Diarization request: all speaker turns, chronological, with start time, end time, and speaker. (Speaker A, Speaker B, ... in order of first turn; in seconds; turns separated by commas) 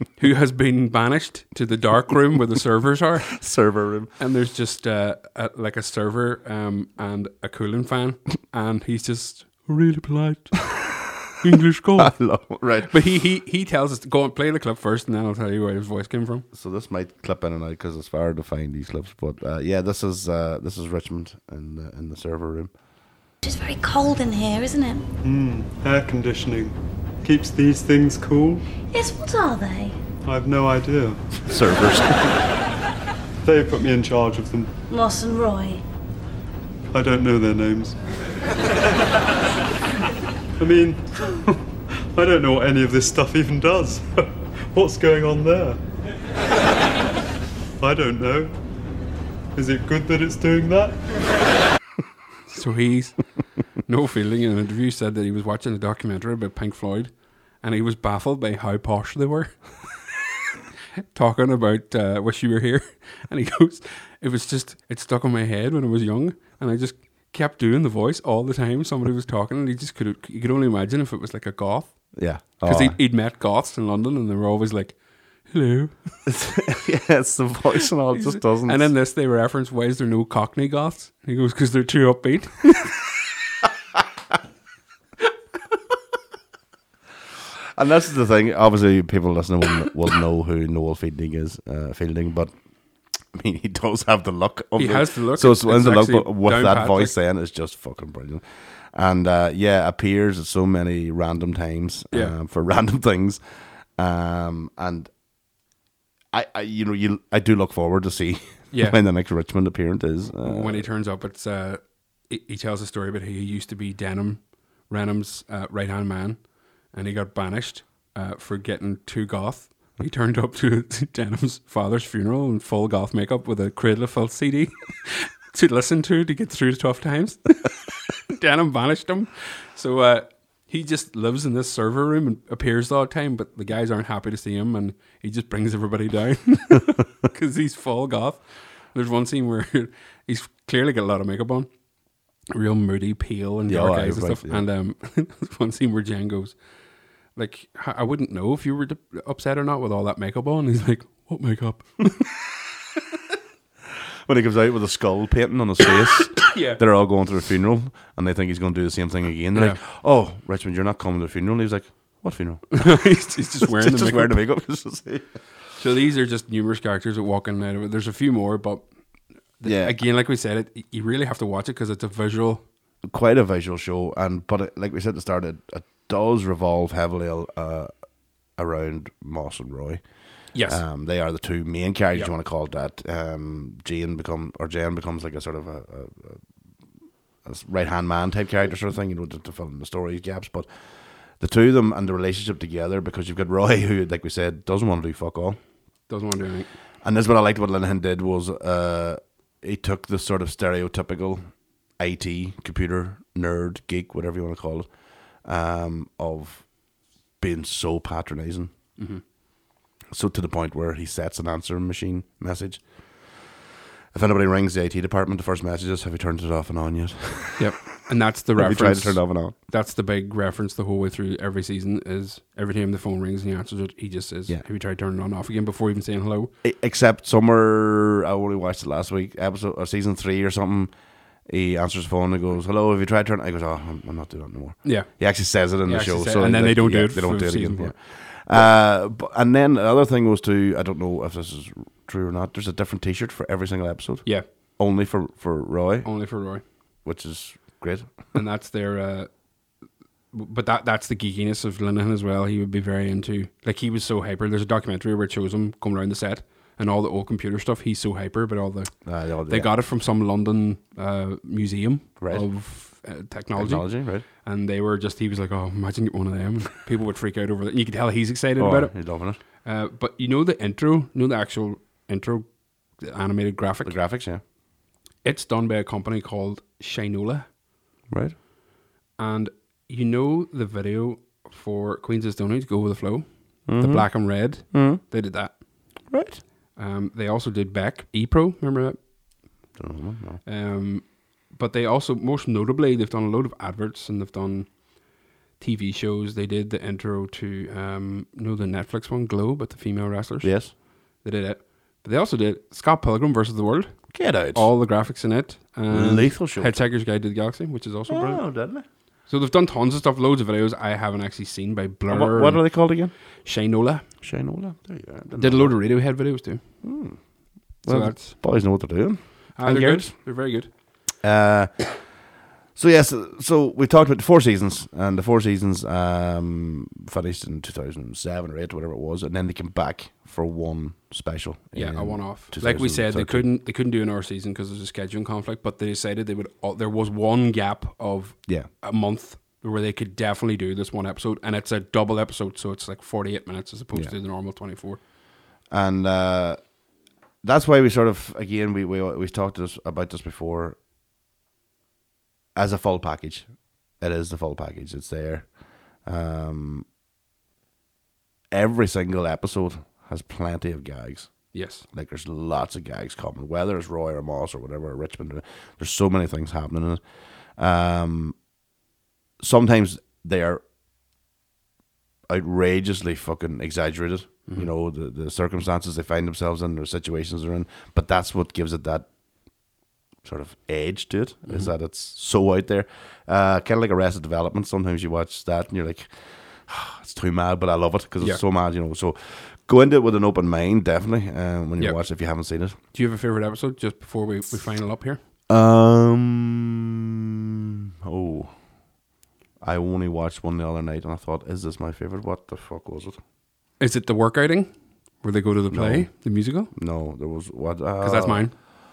Speaker A: 0.2-3.4, Speaker B: 3.4-4.1, Speaker A: 4.2-10.6, Speaker A: 11.4-12.2, Speaker B: 12.0-12.9, Speaker A: 12.9-16.4, Speaker B: 16.5-22.7, Speaker C: 23.4-25.1, Speaker D: 25.2-28.6, Speaker C: 28.9-29.9, Speaker D: 30.2-31.2, Speaker B: 31.4-32.4, Speaker D: 33.4-34.7, Speaker C: 34.9-35.8, Speaker D: 36.9-38.0, Speaker D: 40.6-41.6, Speaker D: 42.1-45.8, Speaker D: 47.8-48.5, Speaker D: 49.5-51.0, Speaker A: 52.5-53.2, Speaker A: 53.9-57.1, Speaker A: 57.6-59.6, Speaker A: 61.1-71.9, Speaker B: 72.2-73.0, Speaker A: 72.6-75.0, Speaker A: 75.5-75.9, Speaker B: 76.3-78.9, Speaker A: 78.1-82.7, Speaker B: 87.7-92.5, Speaker B: 93.3-103.4, Speaker A: 94.8-97.1, Speaker B: 104.0-105.1, Speaker B: 106.3-110.9, Speaker A: 108.7-109.0, Speaker A: 110.4-116.4, Speaker A: 116.9-127.7, Speaker A: 128.3-141.7, Speaker A: 142.5-146.6, Speaker B: 143.7-144.6, Speaker A: 147.4-152.0, Speaker B: 154.3-162.9, Speaker A: 156.4-156.8, Speaker A: 162.7-164.4, Speaker B: 163.6-165.3, Speaker A: 165.8-168.8, Speaker A: 169.6-172.6, Speaker B: 169.6-170.0, Speaker B: 173.1-177.9, Speaker B: 178.6-180.0, Speaker A: 180.5-180.8, Speaker B: 180.6-186.4, Speaker B: 187.4-190.7, Speaker B: 191.4-195.6, Speaker A: 196.1-196.7, Speaker B: 197.0-201.4, Speaker B: 202.0-204.9, Speaker B: 205.4-206.6, Speaker B: 207.4-208.7, Speaker B: 210.1-212.8, Speaker B: 214.1-217.8, Speaker A: 217.6-226.5, Speaker B: 218.5-219.6, Speaker B: 226.6-230.9, Speaker B: 231.5-246.1, Speaker A: 234.8-235.1, Speaker A: 235.8-237.9, Speaker A: 246.1-246.6, Speaker B: 247.1-248.1, Speaker A: 248.3-249.3, Speaker A: 250.3-258.9, Speaker B: 259.1-259.7, Speaker A: 259.5-268.9, Speaker B: 262.2-262.4, Speaker B: 263.6-264.3, Speaker B: 268.6-269.4, Speaker A: 269.6-272.4, Speaker A: 273.0-273.9, Speaker B: 273.8-274.4, Speaker A: 275.2-277.5, Speaker B: 278.1-278.4, Speaker A: 279.2-285.5, Speaker B: 283.7-285.0, Speaker B: 286.1-286.4, Speaker A: 286.8-289.0, Speaker B: 289.8-290.4, Speaker A: 290.4-294.7, Speaker A: 295.6-300.6, Speaker B: 300.4-300.7, Speaker A: 301.2-308.4, Speaker B: 304.1-304.7, Speaker B: 305.9-306.8, Speaker B: 308.1-308.9, Speaker A: 309.3-312.7, Speaker B: 312.1-313.1, Speaker A: 313.4-314.1, Speaker B: 314.2-315.8, Speaker A: 315.4-316.6, Speaker B: 316.8-317.2, Speaker B: 317.8-320.1, Speaker A: 317.9-318.4, Speaker A: 319.6-320.7, Speaker B: 321.2-322.0, Speaker B: 322.8-333.5, Speaker A: 331.7-345.0, Speaker B: 345.7-346.6, Speaker B: 347.4-350.8, Speaker B: 352.6-353.5, Speaker B: 354.0-355.5, Speaker B: 356.1-356.9, Speaker B: 358.5-361.3, Speaker A: 361.5-361.9, Speaker B: 361.9-367.0, Speaker B: 367.6-368.4, Speaker B: 369.4-370.6, Speaker B: 372.3-379.1, Speaker B: 380.2-392.8, Speaker A: 381.4-381.7, Speaker A: 392.9-395.2, Speaker B: 395.5-396.9, Speaker B: 398.0-398.6, Speaker B: 399.6-403.2, Speaker A: 403.8-404.7, Speaker A: 405.2-406.7, Speaker B: 405.7-406.1, Speaker B: 406.7-408.5, Speaker A: 408.0-408.5